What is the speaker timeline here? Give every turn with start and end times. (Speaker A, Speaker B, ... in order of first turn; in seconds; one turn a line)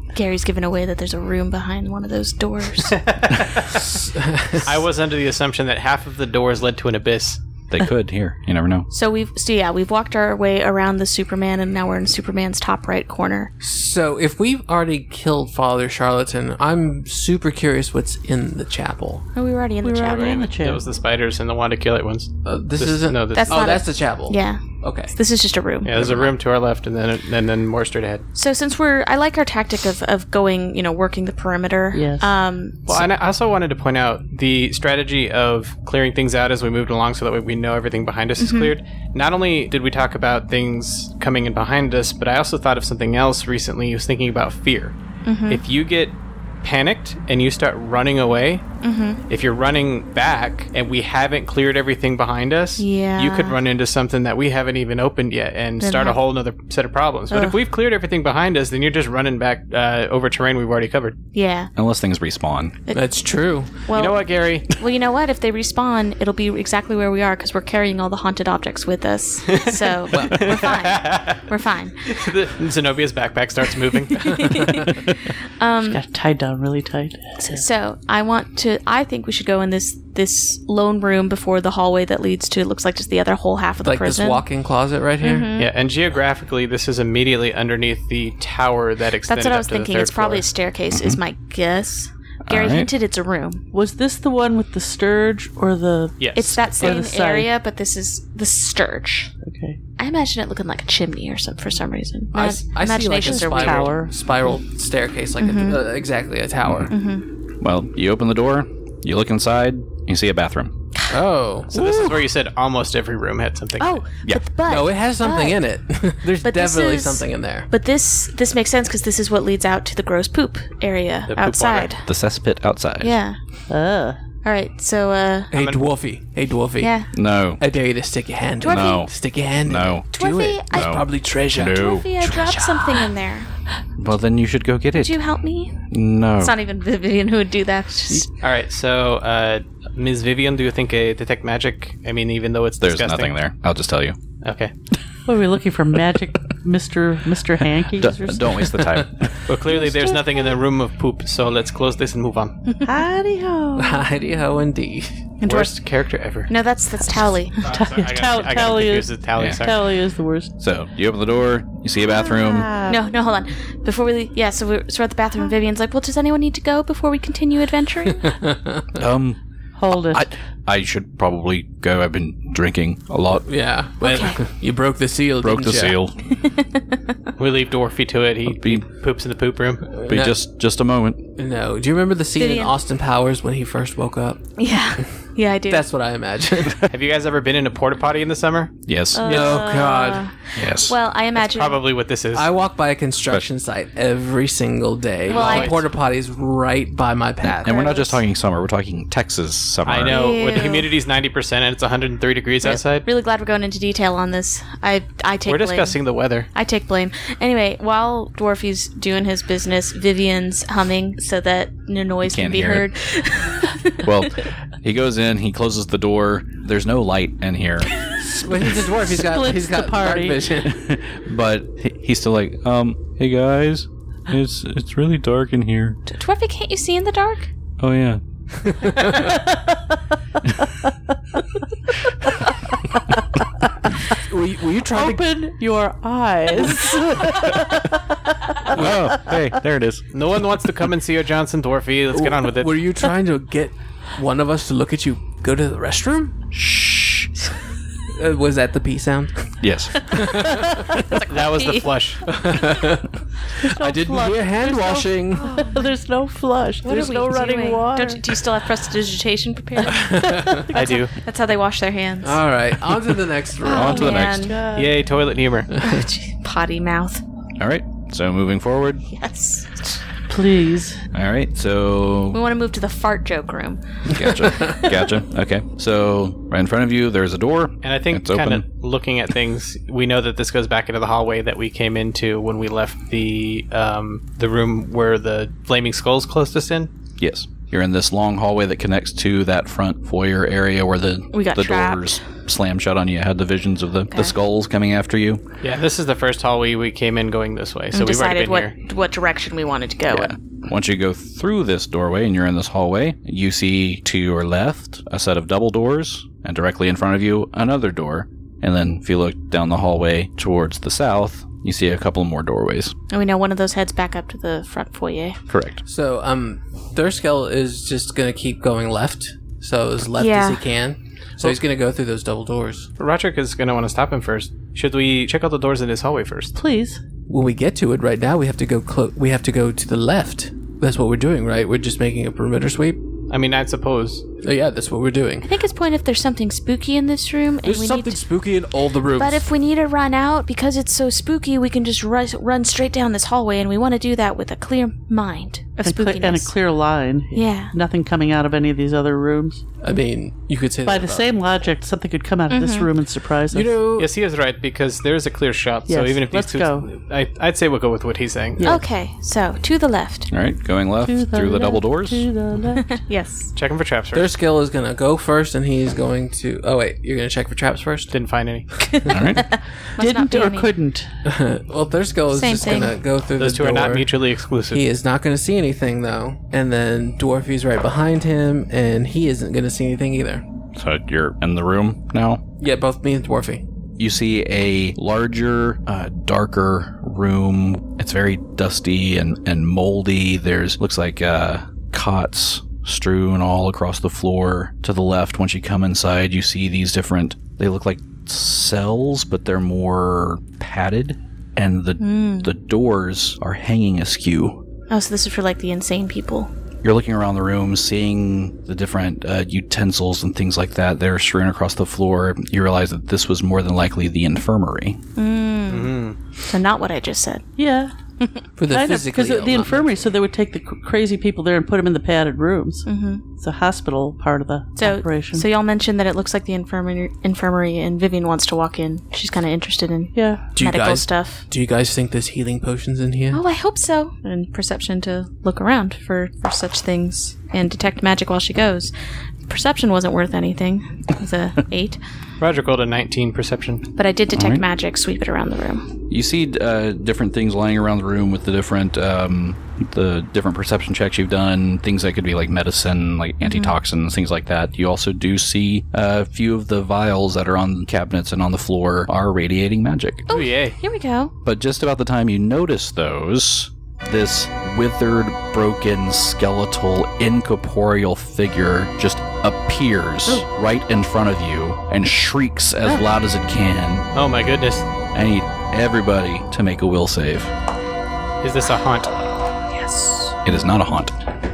Speaker A: 0.1-3.0
Speaker B: 2.9-3.8
Speaker C: 3.9-4.7
Speaker B: 4.6-7.4
Speaker D: 7.7-8.9
Speaker A: 8.9-13.5
Speaker C: 13.6-19.2
Speaker A: 19.4-20.5
Speaker E: 19.8-20.9
Speaker B: 20.1-23.8
Speaker C: 22.4-25.1
Speaker A: 23.3-26.0
Speaker B: 25.9-28.2
Speaker A: 28.4-33.1
Speaker E: 31.9-32.3
Speaker B: 32.9-45.0
Speaker A: 38.4-38.7
Speaker A: 45.2-45.6
Speaker B: 45.5-48.6
Speaker A: 48.8-49.2
Speaker B: 49.3-61.2
Speaker A: 52.8-53.6
Speaker A: 55.8-56.2
Speaker A: 57.3-57.6
Speaker A: 61.3-61.7
Speaker D: 61.8-62.8
Speaker A: 62.9-63.1
Speaker C: 62.9-63.8
Speaker A: 63.8-72.1
Speaker B: 63.9-64.7
Speaker B: 69.5-71.4
Speaker C: 70.1-70.6
Speaker B: 72.1-74.7
Speaker A: 74.1-76.0
Speaker E: 75.9-77.6
Speaker A: 77.4-84.5
Speaker C: 83.8-85.5
Speaker A: 85.2-85.7
Speaker B: 85.6-90.5
Speaker A: 89.3-93.6
Speaker D: 90.9-91.2
Speaker D: 92.5-92.9
Speaker E: 93.7-97.5
Speaker B: 96.2-97.0
Speaker A: 96.3-99.3
Speaker E: 99.4-99.8
Speaker A: 100.0-104.0
Speaker C: 102.3-106.9
Speaker E: 103.2-104.1
Speaker A: 105.4-105.8
Speaker D: 106.7-106.9
Speaker A: 106.9-107.2
Speaker D: 107.6-110.7
Speaker C: 111.1-112.2
Speaker B: 111.7-114.0
Speaker A: 113.8-115.6
Speaker C: 114.7-117.7
Speaker A: 116.4-122.1
Speaker B: 121.3-121.9
Speaker D: 122.1-123.1
Speaker A: 123.0-123.4
Speaker E: 123.7-124.2
Speaker A: 124.4-125.5
Speaker C: 125.5-126.9
Speaker B: 125.5-125.9
Speaker A: 126.8-127.1
Speaker D: 127.1-127.6
Speaker C: 127.6-133.1
Speaker A: 128.6-129.1
Speaker D: 128.6-129.1
Speaker D: 129.6-130.1
Speaker A: 130.1-131.1
Speaker D: 130.7-132.1
Speaker A: 131.6-133.5
Speaker D: 134.0-135.2
Speaker A: 134.9-135.9
Speaker D: 135.9-136.5
Speaker A: 136.4-138.3
Speaker B: 138.4-143.3
Speaker D: 142.8-144.2
Speaker B: 144.4-144.7
Speaker E: 145.3-148.8
Speaker D: 148.0-149.4
Speaker B: 149.5-152.7
Speaker E: 152.8-154.1
Speaker C: 153.8-155.3
Speaker B: 155.4-156.5
Speaker A: 155.4-155.7
Speaker A: 156.5-157.6
Speaker B: 157.6-159.8
Speaker E: 157.6-160.5
Speaker D: 159.4-159.7
Speaker D: 160.6-162.7
Speaker E: 162.2-163.0
Speaker A: 162.8-168.3
Speaker C: 168.2-168.8
Speaker D: 168.9-169.4
Speaker E: 169.8-170.2
Speaker D: 170.1-173.5
Speaker C: 173.5-176.0
Speaker A: 174.0-174.4
Speaker D: 175.4-176.2
Speaker A: 176.3-176.8
Speaker B: 177.4-179.9
Speaker D: 178.5-178.8
Speaker C: 179.9-180.4
Speaker D: 180.1-181.2
Speaker C: 181.4-184.4
Speaker A: 182.4-182.7
Speaker A: 184.6-185.9
Speaker C: 185.7-186.9
Speaker B: 186.9-188.7
Speaker D: 188.9-189.4
Speaker A: 189.2-191.8
Speaker E: 189.2-189.7
Speaker C: 189.2-190.3
Speaker D: 190.6-190.9
Speaker B: 191.4-192.5
Speaker C: 192.3-197.9
Speaker A: 195.3-195.8
Speaker B: 195.3-195.8
Speaker D: 197.4-200.2
Speaker A: 197.6-198.2
Speaker B: 199.8-203.1
Speaker A: 200.1-200.9
Speaker A: 202.6-206.0
Speaker B: 205.5-206.5
Speaker A: 206.5-214.1
Speaker D: 212.3-212.9
Speaker D: 214.0-217.9
Speaker E: 218.1-220.5
Speaker C: 218.4-220.8
Speaker D: 220.6-226.0
Speaker A: 226.1-227.5
Speaker D: 227.8-228.2
Speaker C: 228.6-229.3
Speaker E: 229.1-230.0
Speaker E: 230.5-230.9
Speaker C: 234.1-235.3
Speaker E: 234.9-239.3
Speaker C: 238.7-239.0
Speaker D: 238.7-240.0
Speaker B: 240.1-242.7
Speaker C: 242.1-246.3
Speaker D: 246.5-247.3
Speaker C: 248.1-250.7
Speaker D: 249.6-250.2
Speaker A: 251.1-251.9
Speaker B: 251.3-252.2
Speaker C: 252.3-255.5
Speaker E: 253.6-258.3
Speaker A: 255.3-255.9
Speaker A: 256.8-260.2
Speaker C: 259.9-260.6
Speaker E: 260.3-261.0
Speaker B: 260.7-261.1
Speaker A: 260.7-262.4
Speaker C: 262.2-264.1
Speaker A: 263.6-264.6
Speaker D: 263.7-264.6
Speaker E: 263.8-264.9
Speaker B: 264.7-265.7
Speaker A: 265.8-267.2
Speaker D: 267.6-269.1
Speaker A: 269.1-270.0
Speaker E: 270.3-271.0
Speaker D: 271.1-272.4
Speaker A: 272.3-274.9
Speaker D: 274.1-278.6
Speaker C: 274.2-274.8
Speaker B: 277.8-286.9
Speaker D: 287.2-295.4
Speaker A: 291.3-292.2
Speaker B: 295.6-298.7
Speaker A: 297.9-300.3
Speaker D: 300.1-312.9
Speaker A: 313.1-315.4
Speaker D: 315.5-315.8
Speaker C: 315.9-322.9
Speaker A: 320.2-320.7
Speaker B: 323.0-326.5
Speaker E: 326.6-327.0
Speaker C: 327.3-333.0
Speaker B: 333.3-334.2
Speaker C: 334.4-335.5
Speaker A: 335.4-338.2
Speaker C: 337.6-339.5
Speaker A: 339.1-346.6
Speaker E: 345.8-349.6
Speaker A: 347.3-347.7
Speaker C: 349.8-351.3
Speaker E: 350.9-353.8
Speaker A: 352.5-352.9
Speaker C: 353.5-354.1
Speaker B: 354.0-358.6
Speaker E: 355.9-356.9
Speaker E: 358.6-358.8
Speaker A: 358.6-360.3
Speaker D: 360.3-362.3
Speaker E: 361.0-363.1
Speaker A: 362.9-363.5
Speaker B: 363.6-364.3
Speaker C: 364.1-368.1
Speaker B: 368.1-368.7
Speaker A: 368.9-370.7
Speaker D: 369.1-369.4
Speaker E: 370.0-371.1
Speaker C: 371.2-374.1
Speaker A: 372.3-373.0
Speaker B: 373.4-374.8
Speaker C: 374.7-380.4
Speaker D: 380.7-382.4
Speaker C: 382.6-383.6
Speaker D: 384.0-404.6
Speaker A: 402.0-402.5
Speaker A: 404.9-406.5
Speaker D: 406.8-415.0
Speaker A: 415.2-415.9
Speaker B: 415.7-416.2
Speaker A: 416.5-417.4
Speaker E: 417.6-417.9
Speaker C: 418.6-420.1
Speaker E: 418.7-425.5
Speaker A: 422.9-423.2
Speaker A: 424.8-431.4
Speaker E: 430.1-430.5
Speaker C: 430.6-433.4
Speaker A: 433.3-438.9
Speaker A: 439.5-442.0
Speaker B: 442.4-443.9
Speaker A: 444.0-445.9
Speaker D: 444.4-444.6
Speaker D: 446.1-460.3
Speaker A: 453.4-453.8
Speaker A: 460.3-461.3
Speaker B: 460.3-460.8
Speaker D: 461.4-474.1
Speaker B: 474.1-474.9
Speaker D: 475.1-477.5
Speaker B: 478.4-479.1
Speaker A: 479.5-480.4
Speaker D: 480.4-481.1